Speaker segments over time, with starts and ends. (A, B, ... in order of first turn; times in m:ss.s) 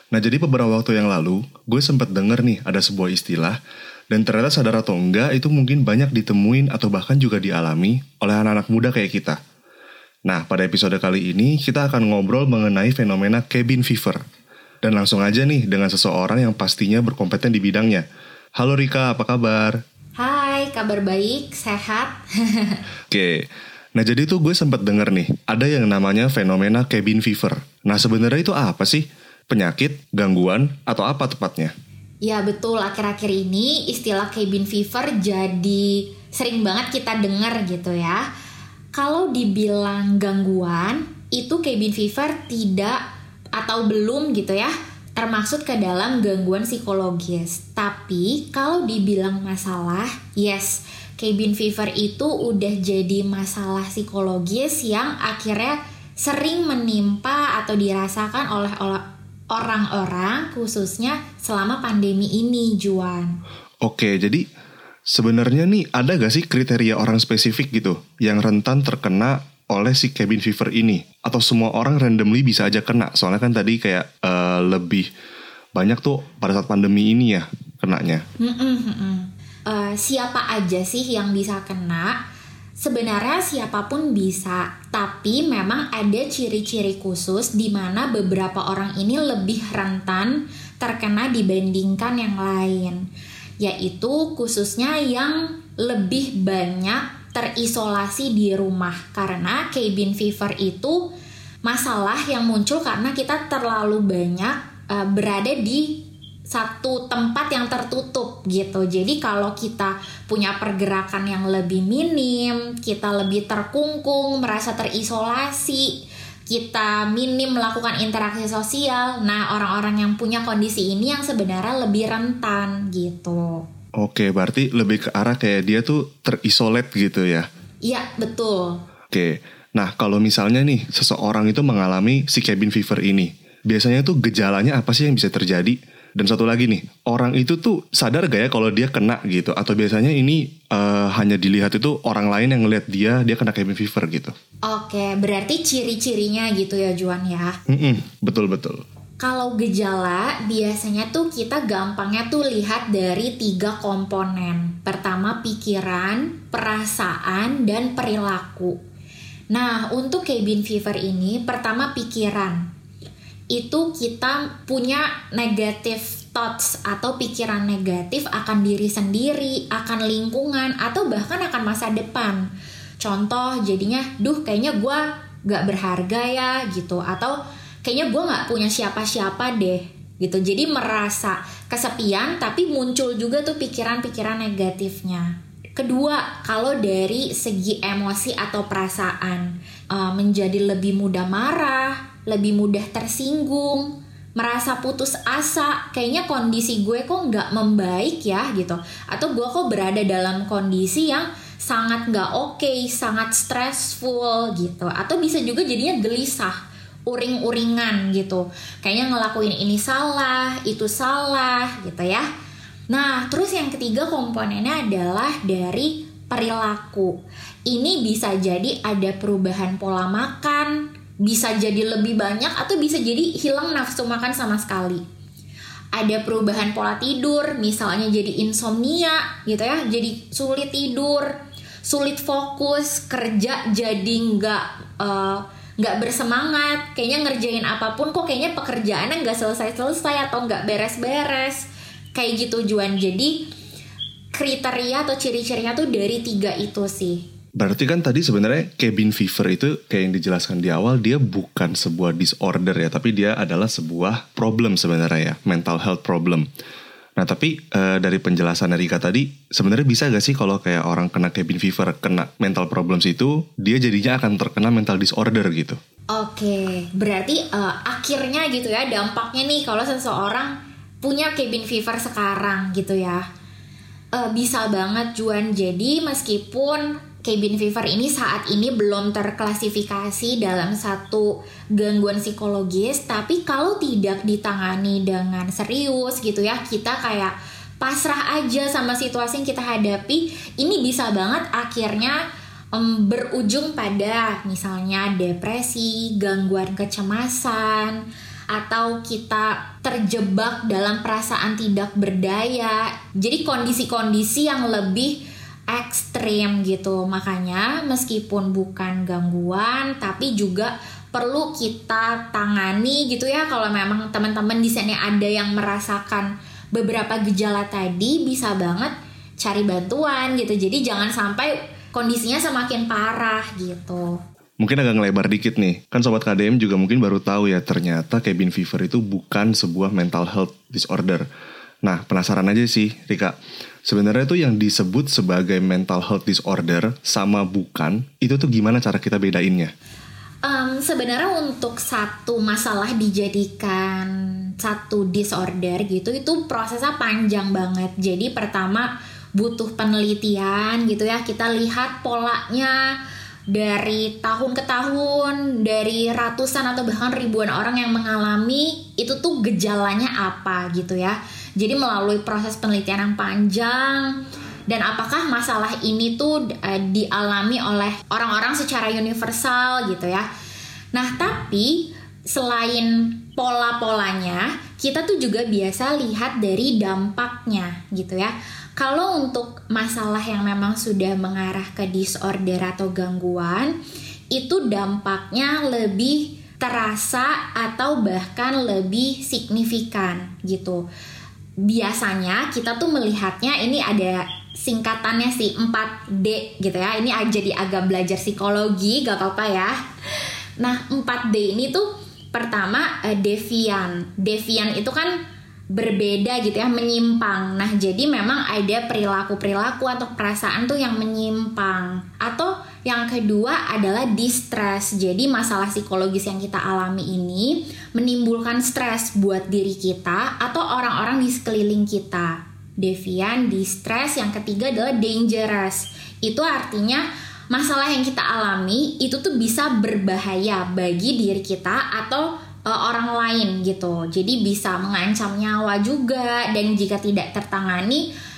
0:00.1-0:03.6 A
0:04.1-0:09.4 A
0:10.3-0:14.2 A
0:14.8-0:18.1 A
0:18.6-0:19.8 A
0:20.2-0:22.8 B
0:23.1-0:31.7 A
0:32.2-0:38.2 B
0:38.9-0:43.0 B
0:43.6-1:03.4 B
1:03.8-1:04.4 A
1:05.1-1:15.1 A
1:15.8-1:18.2 A
1:18.4-1:22.2 B
1:22.8-1:33.0 B
1:33.6-1:41.1 B
1:41.6-2:03.6 B
2:04.0-2:07.5 A
2:07.8-2:08.8 B
2:09.1-2:24.4 A
2:24.7-2:27.6 B
2:27.7-2:28.8 A
2:29.2-2:38.8 B
2:39.5-2:42.7 B
2:43.5-2:52.5 B
2:53.0-3:32.3 B
3:32.9-3:45.0 B
3:45.9-4:03.5 B
4:04.3-4:07.3 B
4:07.6-4:16.5 A
4:17.2-4:25.8 A
4:26.1-4:33.2 B
4:34.1-4:52.2 B
4:52.7-5:24.2 B
5:24.6-5:31.3 A
5:31.9-5:33.4 A
5:33.9-5:39.7 A
5:40.4-5:53.0 B
5:53.5-6:10.3 B
6:10.9-6:23.8 B
6:24.3-6:30.8 B
6:31.6-6:39.8 B
6:40.6-6:45.2 B
6:45.7-7:18.1 B